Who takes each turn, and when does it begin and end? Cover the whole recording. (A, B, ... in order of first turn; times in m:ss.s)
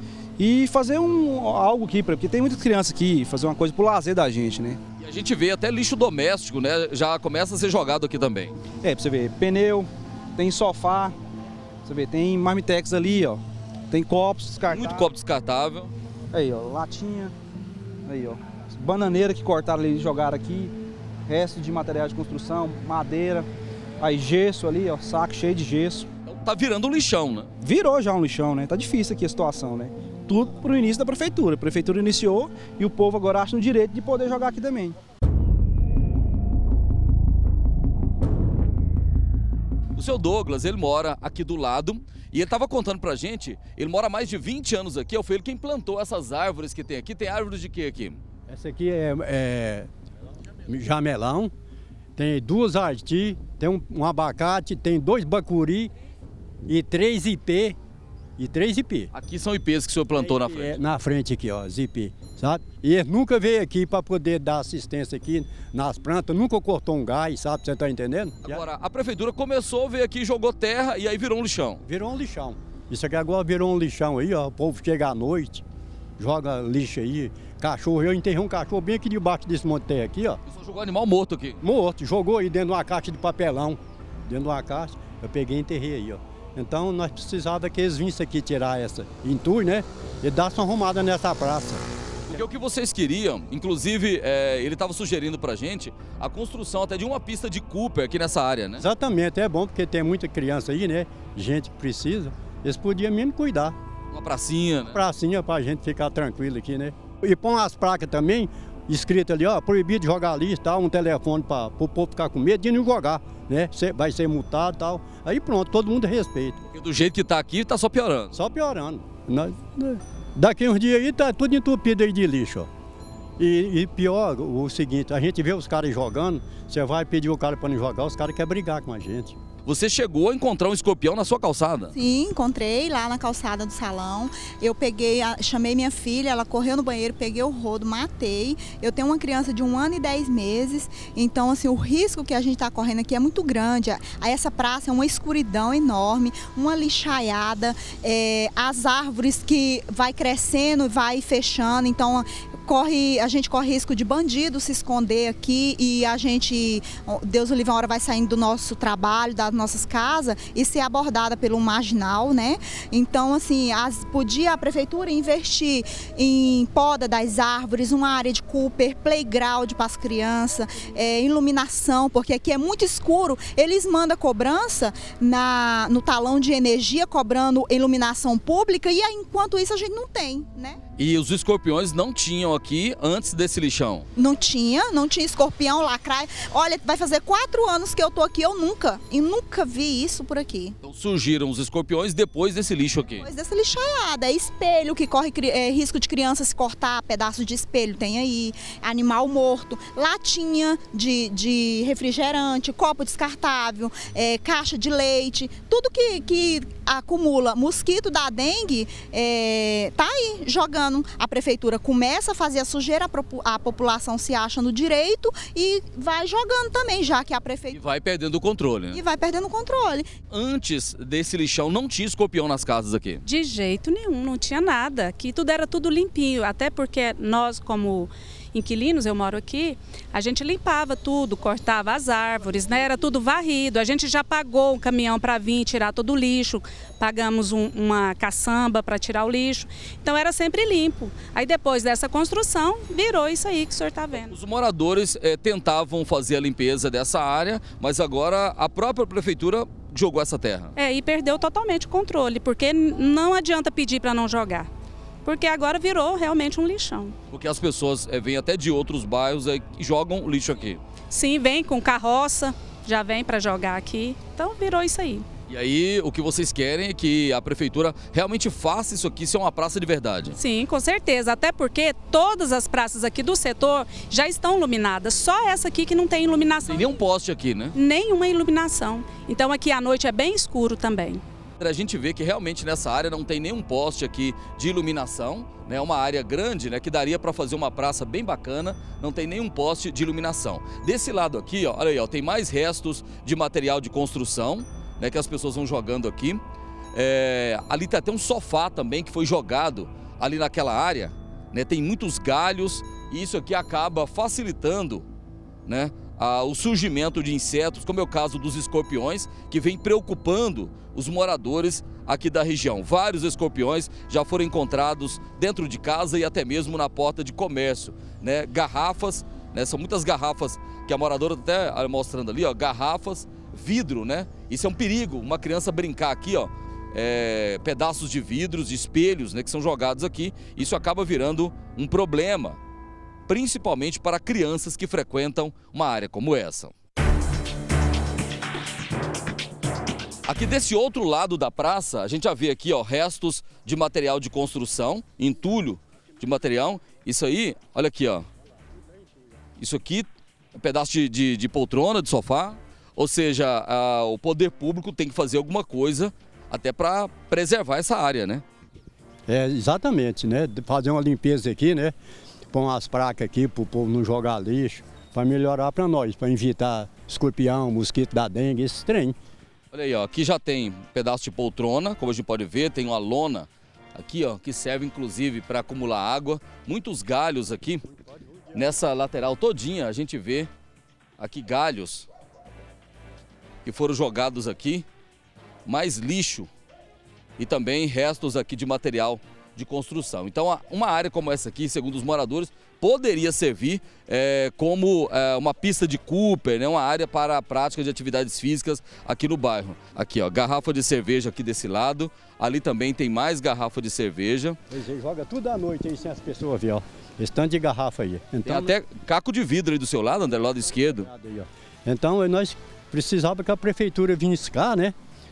0:00.4-0:04.8 A
0:05.0-0:08.5 B
0:08.8-0:11.1 A
0:11.8-0:15.1 A
0:14.7-0:15.9 B
0:16.3-0:17.3 A
0:18.0-0:20.7 A
0:21.2-0:23.5 A
0:24.0-0:26.1 A
0:26.2-0:27.5 B
0:27.6-0:35.0 A
0:40.0-0:48.2 B
0:48.5-0:49.9 C
0:50.6-0:51.5 C
0:52.2-0:55.9 C
0:56.7-0:57.8 C
0:58.4-0:59.1 C
0:59.1-1:00.8 B
1:00.1-1:08.6 C
1:08.4-1:11.8 B
1:11.8-1:15.6 C
1:16.2-1:20.4 C
1:20.5-1:21.6 B
1:21.6-1:31.8 C
1:32.3-1:38.8 B
1:38.8-1:43.7 C
1:44.1-1:45.0 B
1:44.9-1:56.6 C
1:56.7-1:58.3 B
1:58.3-2:02.7 C
2:03.4-2:09.3 C
2:09.6-2:11.9 B
2:11.9-3:00.8 D
3:01.0-3:04.1 B
3:04.2-3:10.8 D
3:10.8-3:13.2 B
3:13.2-3:37.8 D
3:37.7-3:39.0 B
3:38.9-3:40.1 D
3:40.3-3:43.2 B
3:43.2-4:04.3 E
4:04.3-4:10.7 B
4:10.8-4:14.7 E
4:15.2-4:17.1 E
4:17.3-4:20.8 B
4:21.1-4:25.2 E
4:25.5-4:30.4 B
4:30.4-4:36.9 E
4:36.7-4:37.7 B
4:37.7-4:41.2 E
4:41.6-4:56.4 B
4:56.9-5:05.0 B
5:05.6-5:32.6 B
5:33.3-5:36.7 B
5:40.2-5:48.3 B
5:49.6-5:58.4 B
5:59.3-6:01.9 C
6:02.5-6:09.2 C
6:09.7-6:17.8 B
6:18.5-6:20.5 B
6:21.2-6:22.1 B
6:23.6-6:24.8 B
6:25.6-6:26.5 B
6:27.4-6:44.6 B
6:44.7-6:48.7 C
6:48.4-6:51.1 B
6:51.0-6:54.9 C